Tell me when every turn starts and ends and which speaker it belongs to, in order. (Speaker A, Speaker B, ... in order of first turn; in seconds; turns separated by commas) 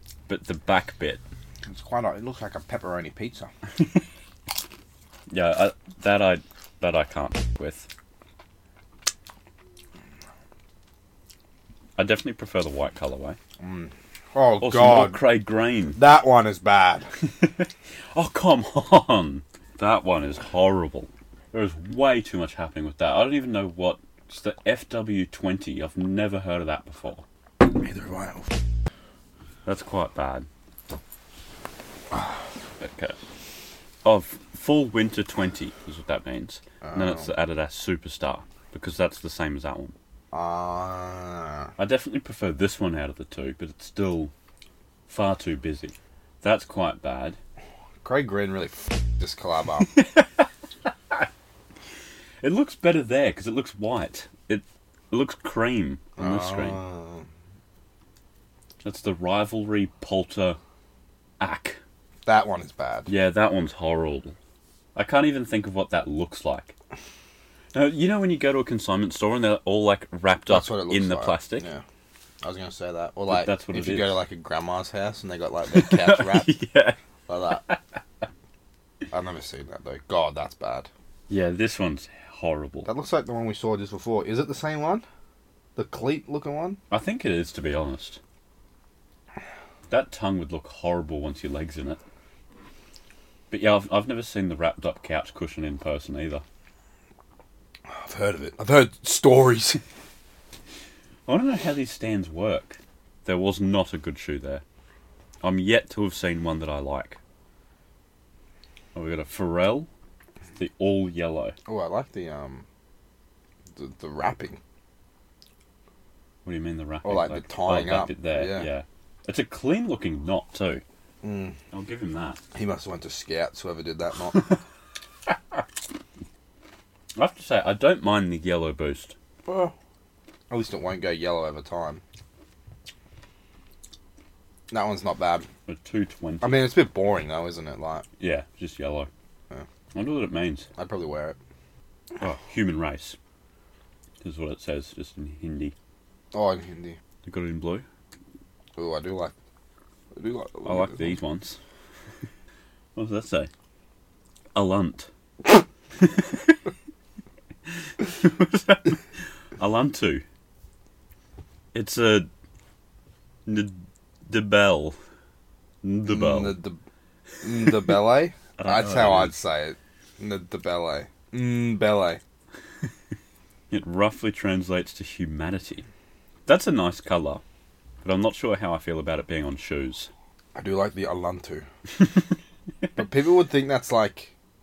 Speaker A: 0.3-1.2, Speaker B: 1.7-3.5, Speaker A: 5.3-7.9, Speaker A: 12.0-13.4, Speaker B: 13.6-15.2, Speaker A: 14.6-16.0, Speaker B: 15.9-17.1, Speaker A: 17.2-27.2, Speaker B: 27.8-28.5, Speaker A: 29.6-30.5, Speaker A: 32.8-33.2, Speaker A: 34.0-39.9, Speaker B: 36.8-37.3, Speaker B: 40.3-41.7, Speaker A: 41.8-44.3, Speaker A: 45.1-47.4, Speaker B: 48.0-49.9, Speaker A: 49.9-50.4, Speaker A: 52.4-56.8, Speaker B: 56.2-57.3, Speaker A: 58.8-60.6, Speaker A: 61.4-61.8, Speaker B: 62.2-63.1, Speaker A: 63.1-64.3, Speaker A: 64.9-66.7, Speaker A: 67.7-71.7, Speaker B: 70.5-71.8, Speaker B: 72.4-76.5, Speaker A: 73.3-74.2, Speaker A: 75.7-77.0, Speaker B: 77.3-77.7, Speaker B: 79.1-80.9, Speaker A: 81.3-82.9, Speaker B: 82.8-85.0, Speaker B: 85.8-86.8, Speaker A: 86.9-88.2, Speaker A: 89.9-92.0, Speaker A: 93.5-96.4, Speaker B: 97.9-99.8, Speaker A: 101.2-104.6, Speaker A: 105.4-107.2, Speaker A: 108.9-109.9, Speaker A: 110.6-111.5, Speaker B: 111.7-112.6, Speaker B: 113.8-114.6, Speaker A: 116.4-120.8, Speaker B: 117.0-118.7, Speaker B: 121.2-121.6, Speaker A: 121.7-122.4, Speaker B: 122.5-124.5, Speaker A: 127.2-129.1, Speaker B: 129.4-129.7, Speaker B: 130.5-132.0, Speaker B: 134.7-135.5, Speaker A: 135.7-136.6, Speaker B: 136.4-138.0, Speaker A: 138.2-139.1, Speaker A: 139.9-140.7, Speaker B: 140.8-141.4, Speaker A: 142.2-143.2, Speaker A: 144.2-145.8, Speaker B: 146.3-147.0, Speaker A: 147.2-147.8, Speaker B: 148.8-149.3, Speaker B: 150.1-151.2, Speaker A: 150.6-151.6, Speaker A: 152.9-153.5, Speaker A: 154.5-155.1, Speaker A: 156.0-156.5, Speaker A: 158.0-159.0, Speaker A: 159.6-160.2, Speaker A: 161.7-162.3, Speaker A: 163.4-165.0, Speaker A: 165.8-166.6, Speaker B: 166.1-166.8, Speaker B: 167.4-172.2, Speaker A: 168.6-169.3, Speaker A: 173.7-175.8, Speaker A: 176.4-177.4, Speaker A: 178.0-180.1, Speaker B: 180.5-181.7, Speaker B: 182.9-184.3